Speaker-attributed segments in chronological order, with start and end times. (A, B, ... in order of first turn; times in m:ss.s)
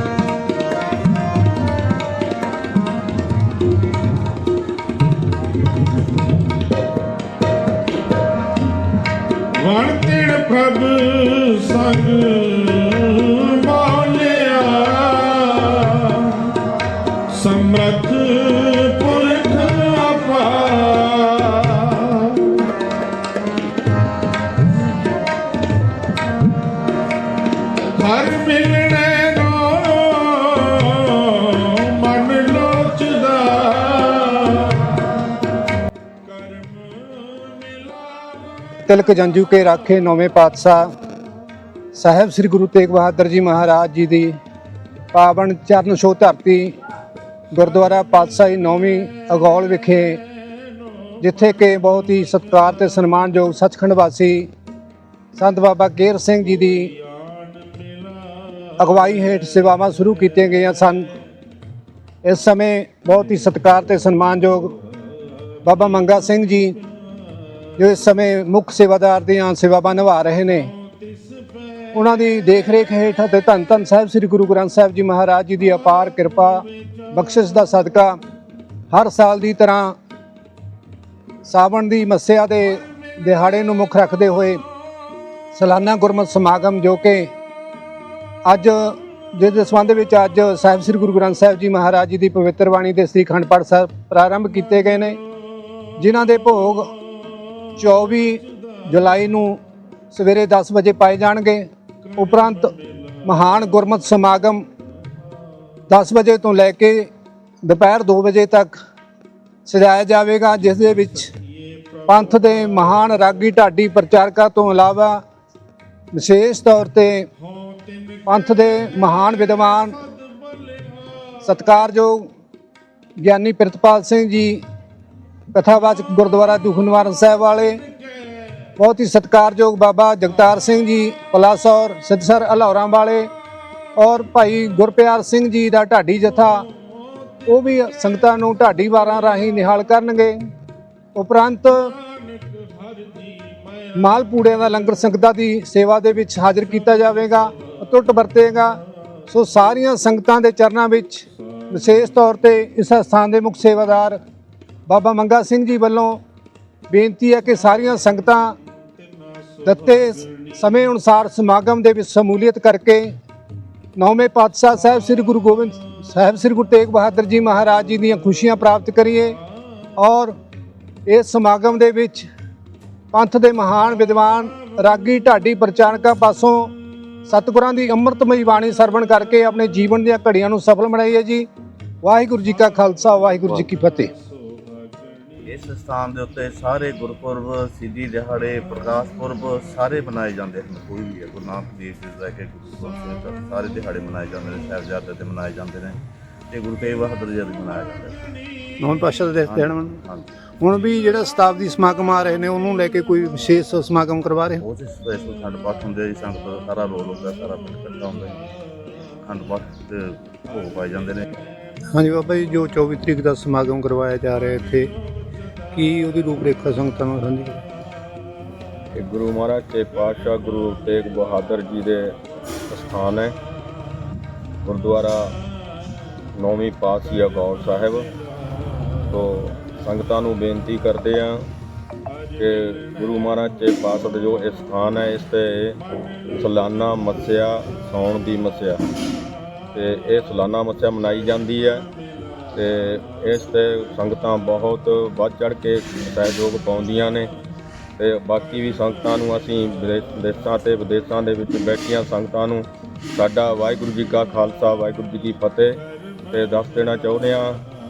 0:09.5-0:16.6 A
0:17.3-0:22.7 A
0:27.8-0:35.0 A
0:36.2-0:38.6 A
0:38.9-0:40.9 B
0:42.0-0:44.4 B
0:45.1-0:46.7 B
0:47.5-0:50.2 B
0:51.2-0:54.5 B
0:55.4-0:56.9 B
0:58.8-1:01.1 B
1:02.2-1:04.8 B
1:05.6-1:06.8 B
1:07.8-1:10.7 B
1:11.9-1:18.2 B
1:18.9-1:20.0 B
1:21.5-1:24.6 B
1:25.5-1:27.3 B
1:28.5-1:35.2 B
1:36.0-1:36.9 B
1:37.8-1:39.6 B
1:40.1-1:41.6 B
1:42.2-1:42.7 B
1:43.2-1:44.6 B
1:45.9-1:47.1 B
1:47.6-1:48.8 B
1:49.6-1:51.3 B
1:52.1-1:55.2 B
1:56.1-1:57.3 B
1:58.3-2:00.0 B
2:00.6-2:01.2 A
2:01.4-2:02.3 B
2:03.2-2:04.6 B
2:05.5-2:07.8 B
2:08.8-2:13.3 B
2:14.0-2:16.7 B
2:17.5-2:20.4 B
2:21.2-2:22.0 B
2:22.2-2:23.9 A
2:24.0-2:34.2 B
2:34.9-2:36.2 B
2:36.9-2:38.6 B
2:39.6-2:43.1 B
2:44.0-2:49.4 B
2:50.0-2:50.4 B
2:51.1-2:52.3 B
2:53.1-2:56.7 B
2:57.3-3:01.5 B
3:02.0-3:04.1 B
3:05.4-3:16.0 C
3:16.5-3:18.2 C
3:18.8-3:20.0 B
3:19.5-3:20.3 C
3:20.6-3:24.6 B
3:24.6-3:28.4 C
3:29.2-3:31.3 C
3:31.9-3:34.9 B
3:35.7-3:37.6 B
3:38.9-3:42.2 D
3:42.7-3:43.4 D
3:44.6-3:45.3 D
3:46.4-3:48.1 D
3:49.1-3:51.5 D
3:52.4-3:58.8 D
3:59.7-4:01.9 D
4:02.5-4:07.3 D
4:08.0-4:17.6 D